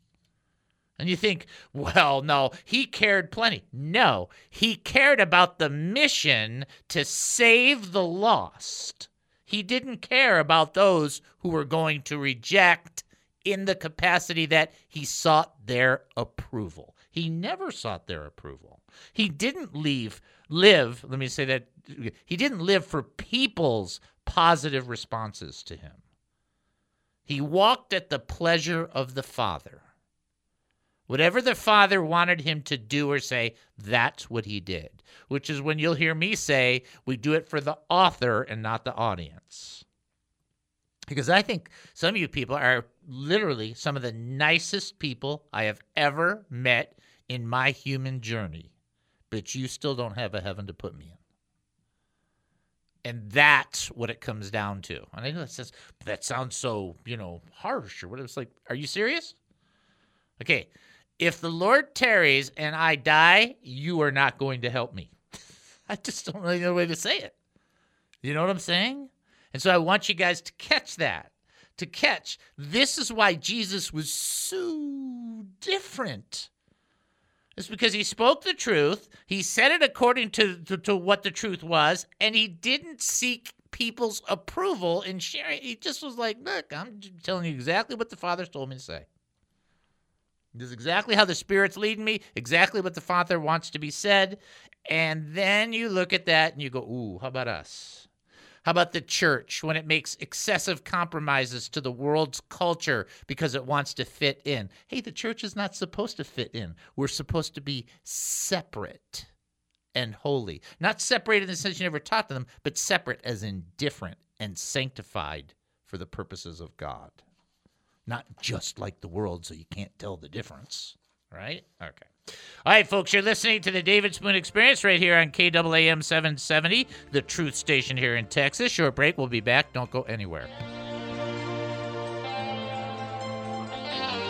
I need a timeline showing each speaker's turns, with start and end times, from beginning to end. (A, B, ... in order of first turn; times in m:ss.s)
0:01.0-0:26.0 A
0:27.3-0:29.8 A
0:31.1-0:39.8 A
0:41.1-0:48.7 A
0:49.3-0:51.2 A
0:53.0-0:59.4 A
1:00.4-1:05.1 A
1:05.9-1:07.3 A
1:08.2-1:16.5 A
1:17.6-1:29.1 A
1:30.5-1:38.1 A
1:38.6-1:49.3 A
1:50.0-1:57.2 A
1:58.1-2:02.1 A
2:02.6-2:10.5 A